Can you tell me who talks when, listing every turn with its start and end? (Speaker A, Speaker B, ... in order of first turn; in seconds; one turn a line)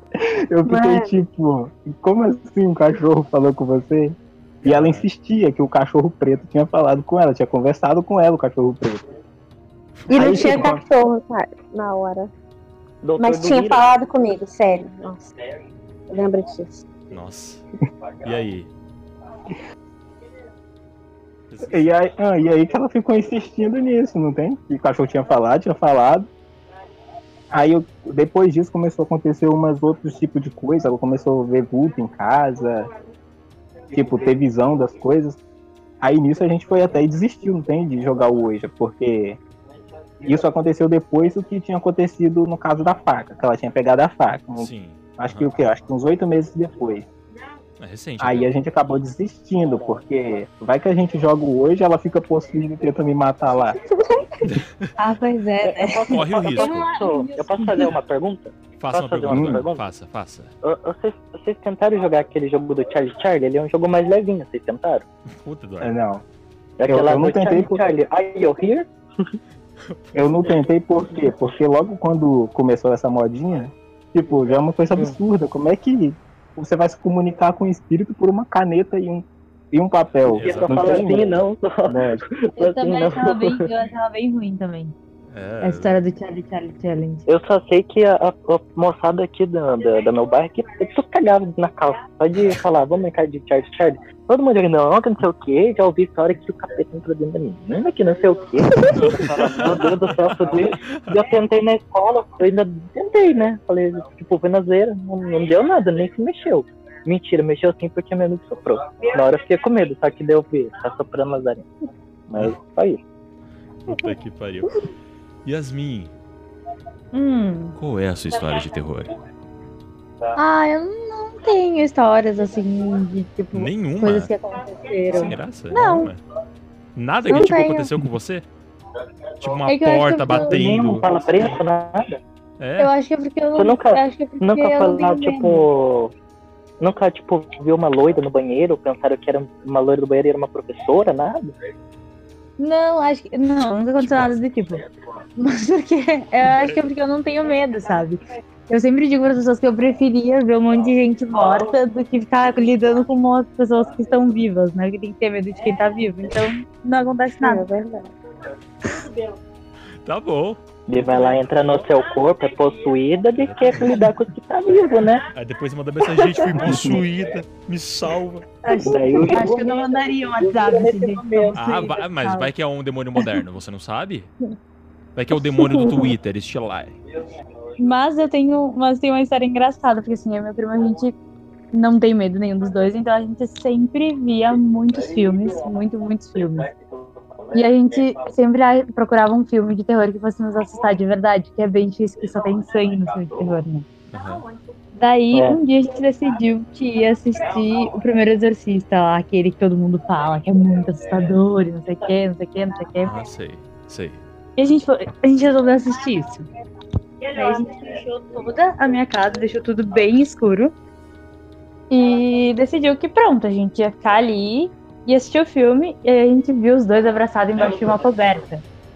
Speaker A: 0.2-9.1
Speaker B: 0.7-1.1
Speaker C: 4.6-5.1
Speaker B: 10.1-12.3
Speaker A: 10.1-10.8
Speaker D: 13.0-13.8
Speaker B: 13.2-15.3
Speaker B: 16.1-16.9
Speaker C: 17.1-17.6
Speaker C: 18.2-18.7
Speaker C: 21.5-21.9
Speaker A: 21.7-26.3
Speaker A: 27.5-32.9
Speaker A: 33.9-35.4
Speaker A: 36.0-39.4
Speaker A: 40.2-47.1
Speaker C: 44.6-45.5
Speaker C: 47.8-48.5
Speaker A: 48.2-53.8
Speaker D: 49.7-50.0
Speaker C: 54.4-54.9
Speaker E: 55.0-57.9
Speaker D: 55.6-59.8
Speaker C: 56.1-56.9
Speaker C: 58.8-60.5
Speaker A: 59.3-59.6
Speaker D: 60.6-65.1
Speaker C: 65.4-65.9
Speaker A: 65.8-66.2
Speaker D: 66.8-69.4
Speaker A: 66.9-67.8
Speaker C: 69.9-70.5
Speaker A: 70.1-81.2
Speaker C: 80.3-81.1
Speaker D: 80.3-83.7
Speaker A: 81.9-82.2
Speaker E: 82.6-84.9
Speaker C: 85.3-86.0
Speaker E: 85.6-87.2
Speaker D: 87.3-111.7
Speaker C: 99.0-100.1
Speaker D: 112.3-113.0
Speaker C: 113.9-114.9
Speaker C: 115.5-116.1
Speaker E: 117.1-117.8
Speaker C: 117.8-119.1
Speaker E: 120.4-126.1
Speaker C: 123.5-124.3
Speaker C: 125.1-126.2
Speaker C: 127.0-128.5
Speaker E: 127.3-127.9
Speaker C: 129.4-131.1
Speaker E: 129.7-130.8
Speaker D: 130.4-132.2
Speaker C: 132.6-132.9
Speaker E: 132.8-135.7
Speaker D: 133.6-136.1
Speaker D: 136.8-141.6
Speaker E: 142.6-144.8
Speaker C: 144.0-144.4
Speaker E: 145.4-157.7
Speaker C: 146.4-146.8
Speaker B: 157.4-158.1
Speaker C: 160.1-161.4
Speaker D: 160.9-165.3
Speaker C: 163.4-164.0
Speaker C: 165.3-168.5
Speaker A: 166.6-167.0
Speaker E: 168.6-172.5
Speaker D: 168.8-171.6
Speaker C: 171.5-174.3
Speaker C: 175.2-177.0
Speaker B: 175.6-176.1
Speaker E: 177.8-181.2
Speaker E: 181.7-186.7
Speaker E: 187.5-193.9
Speaker C: 194.1-194.4
Speaker E: 194.9-203.2
Speaker D: 195.3-195.6
Speaker C: 203.0-204.2
Speaker E: 204.6-206.5
Speaker E: 207.3-210.7
Speaker E: 211.9-218.6